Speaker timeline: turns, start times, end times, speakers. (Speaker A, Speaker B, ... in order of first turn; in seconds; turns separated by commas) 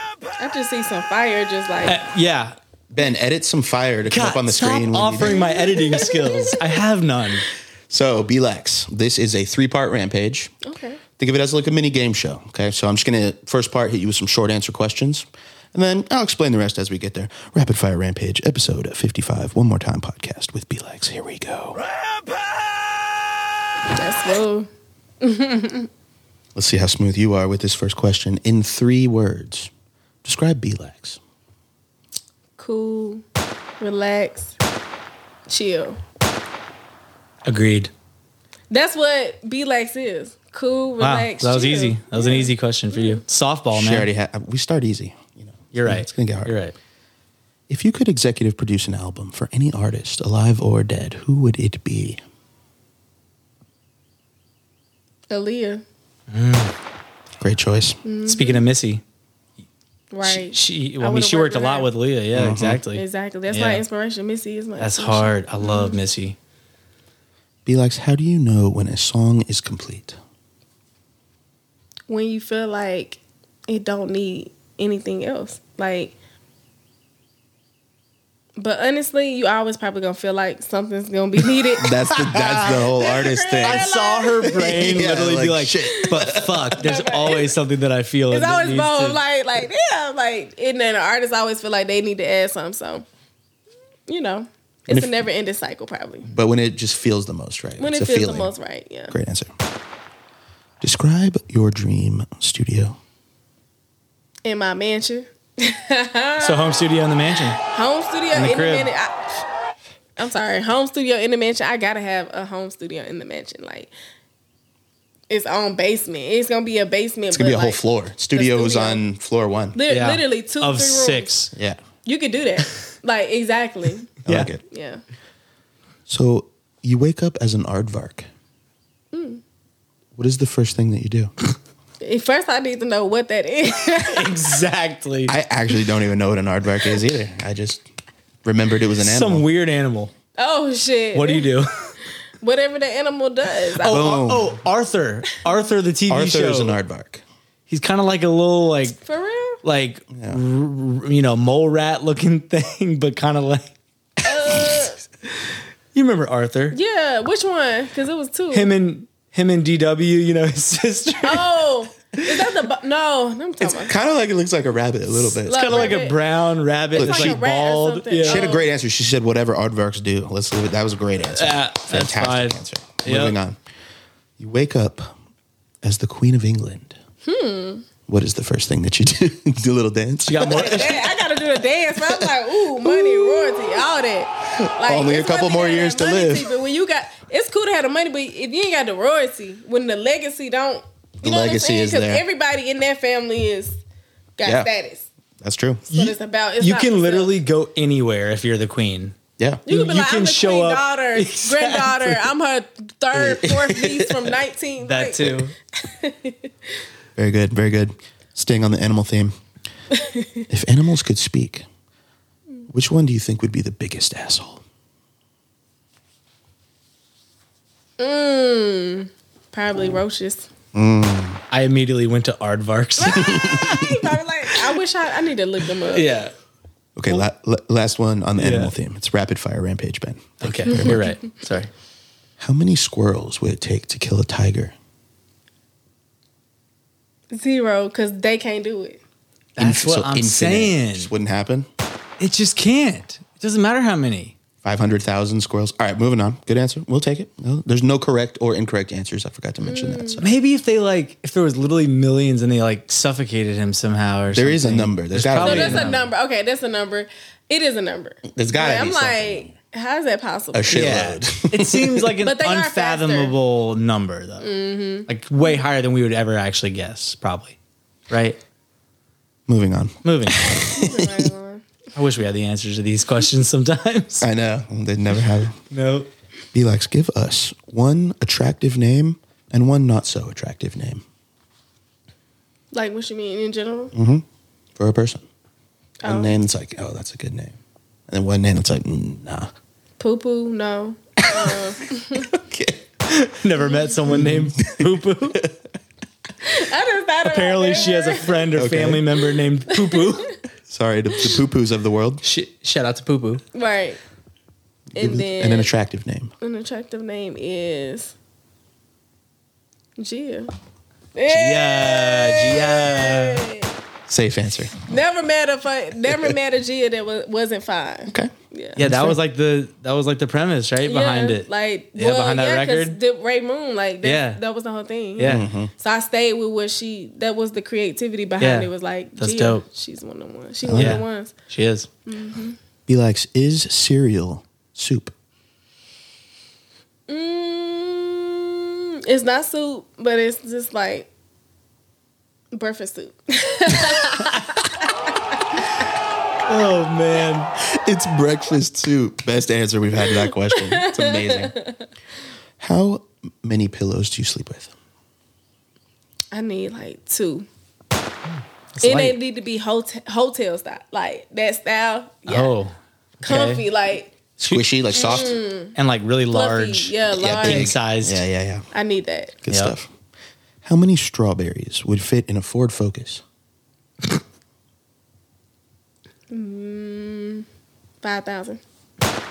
Speaker A: 0.4-2.0, Speaker B: 1.9-2.5, Speaker C: 2.9-5.6, Speaker B: 4.0-7.5, Speaker A: 5.2-6.8, Speaker C: 7.9-10.5, Speaker A: 10.6-11.0, Speaker C: 11.2-21.8, Speaker A: 23.9-24.7, Speaker A: 25.2-25.9, Speaker C: 26.5-29.7, Speaker C: 30.2-31.2, Speaker A: 32.6-33.2, Speaker A: 33.8-34.5, Speaker A: 35.5-36.0, Speaker B: 37.4-37.9, Speaker A: 38.7-43.2, Speaker B: 41.0-44.1, Speaker C: 43.7-46.5, Speaker B: 45.7-46.7, Speaker C: 47.7-52.2, Speaker A: 55.3-55.8, Speaker B: 56.3-56.7, Speaker C: 57.4-58.0, Speaker A: 58.0-58.6, Speaker B: 58.2-59.0, Speaker A: 60.1-61.9, Speaker B: 60.2-63.8, Speaker C: 62.3-62.8, Speaker A: 62.9-66.0, Speaker B: 64.8-66.3, Speaker C: 67.7-70.2, Speaker A: 72.1-76.1, Speaker A: 78.6-85.0, Speaker C: 81.8-83.9, Speaker B: 82.2-82.7, Speaker B: 83.6-89.2, Speaker C: 84.7-86.8, Speaker A: 86.8-87.5, Speaker A: 88.3-93.0, Speaker A: 94.1-96.3, Speaker C: 94.9-95.3, Speaker C: 96.3-98.5, Speaker A: 97.8-99.1, Speaker C: 99.1-99.5, Speaker C: 100.8-103.0, Speaker A: 104.4-106.8, Speaker B: 106.4-107.6, Speaker A: 107.6-109.2, Speaker B: 108.3-108.9, Speaker A: 110.2-113.9, Speaker A: 115.3-117.8, Speaker C: 117.3-119.8, Speaker A: 118.3-119.0, Speaker A: 119.7-121.3, Speaker B: 119.9-121.5, Speaker C: 121.5-121.8, Speaker A: 122.0-124.1, Speaker C: 124.2-124.6, Speaker B: 124.2-124.5, Speaker A: 124.7-125.0, Speaker C: 126.1-128.3, Speaker A: 129.1-129.4, Speaker C: 130.2-131.3, Speaker A: 132.0-134.5, Speaker B: 133.9-135.3, Speaker C: 135.3-137.8, Speaker C: 138.4-139.4, Speaker B: 139.0-140.1, Speaker A: 140.4-141.5, Speaker B: 141.1-141.7, Speaker A: 142.4-144.0, Speaker B: 143.8-146.8, Speaker C: 143.8-144.6, Speaker C: 146.1-147.2, Speaker B: 147.7-149.0, Speaker A: 149.0-149.6, Speaker B: 149.6-153.7, Speaker C: 150.1-150.4, Speaker A: 154.2-155.0, Speaker B: 155.9-156.8, Speaker A: 156.7-158.7, Speaker B: 158.5-161.5, Speaker A: 161.2-163.9, Speaker C: 163.6-166.0, Speaker A: 165.3-166.2, Speaker B: 165.5-168.5, Speaker A: 166.9-168.7, Speaker C: 166.9-167.4, Speaker C: 168.2-173.6, Speaker B: 171.3-173.3, Speaker C: 174.4-175.1, Speaker C: 175.8-177.0, Speaker A: 177.2-177.8, Speaker C: 178.1-180.9, Speaker B: 180.2-181.1, Speaker A: 180.5-193.8, Speaker C: 182.0-183.7, Speaker C: 184.6-186.5, Speaker C: 191.2-192.2, Speaker A: 194.4-195.1, Speaker C: 194.4-194.7, Speaker C: 195.4-195.8, Speaker A: 195.9-197.3, Speaker B: 195.9-199.1, Speaker A: 199.7-206.5, Speaker B: 199.7-202.2, Speaker C: 203.1-204.3, Speaker B: 204.8-205.5, Speaker C: 207.2-209.3, Speaker A: 210.0-210.2, Speaker C: 210.5-211.6, Speaker C: 212.7-214.6, Speaker A: 218.0-220.5, Speaker C: 220.7-221.4, Speaker B: 221.5-223.6, Speaker A: 223.0-226.1, Speaker C: 223.2-224.0, Speaker B: 225.9-226.3, Speaker C: 226.9-231.0, Speaker B: 228.3-228.7, Speaker B: 230.4-231.7, Speaker A: 230.7-231.1, Speaker C: 232.4-234.7, Speaker A: 237.3-239.0, Speaker B: 239.6-241.1, Speaker C: 239.6-241.7, Speaker B: 242.2-244.3, Speaker C: 244.6-250.3, Speaker A: 249.6-250.2, Speaker B: 250.2-256.0, Speaker C: 254.3-256.0, Speaker A: 255.4-260.9, Speaker C: 258.3-259.5, Speaker C: 260.5-262.1, Speaker B: 260.7-264.5, Speaker A: 262.2-263.3, Speaker A: 264.4-265.6, Speaker B: 265.1-267.6, Speaker B: 268.1-268.4, Speaker C: 269.5-271.3, Speaker B: 270.0-270.5, Speaker A: 270.4-271.6, Speaker B: 271.9-274.3, Speaker C: 274.2-275.6, Speaker B: 275.7-276.1, Speaker C: 276.5-281.0, Speaker A: 282.7-283.9, Speaker C: 283.9-284.2, Speaker C: 284.8-285.2, Speaker A: 286.0-286.4, Speaker C: 286.0-287.6, Speaker C: 288.1-289.5, Speaker A: 290.0-292.3, Speaker C: 291.2-291.6, Speaker C: 292.1-292.8, Speaker B: 293.1-295.5, Speaker A: 293.6-293.9, Speaker C: 294.1-295.5, Speaker A: 296.4-298.5, Speaker B: 297.2-300.3, Speaker C: 298.5-299.1, Speaker A: 299.7-300.3, Speaker C: 300.7-302.2, Speaker B: 302.2-303.4, Speaker A: 303.5-304.0, Speaker C: 304.9-306.3, Speaker A: 304.9-305.7, Speaker A: 306.4-308.1, Speaker A: 310.0-310.5, Speaker A: 311.1-313.7, Speaker B: 311.3-313.4, Speaker C: 314.1-314.8, Speaker A: 314.8-318.8, Speaker C: 318.1-319.2, Speaker B: 318.8-323.0, Speaker A: 320.8-331.3, Speaker B: 324.0-324.4, Speaker B: 325.2-325.4, Speaker C: 325.2-325.7, Speaker B: 328.4-329.6, Speaker C: 330.6-331.0, Speaker B: 330.7-331.9, Speaker A: 332.1-332.6, Speaker C: 332.9-335.1, Speaker A: 337.1-341.1, Speaker A: 342.5-344.8, Speaker B: 346.5-347.5, Speaker C: 347.6-351.5, Speaker A: 350.3-351.8, Speaker C: 352.6-354.7, Speaker A: 356.3-357.5, Speaker B: 358.8-359.1, Speaker A: 358.8-362.6, Speaker B: 362.3-363.6, Speaker A: 363.2-364.1, Speaker B: 364.4-364.7, Speaker C: 364.5-365.4, Speaker A: 364.9-365.8, Speaker B: 365.7-368.2, Speaker A: 366.3-367.7, Speaker C: 367.1-368.7, Speaker A: 368.7-369.4, Speaker C: 369.4-369.9, Speaker B: 369.5-369.7, Speaker C: 370.6-373.2, Speaker A: 376.3-377.4, Speaker A: 378.0-378.6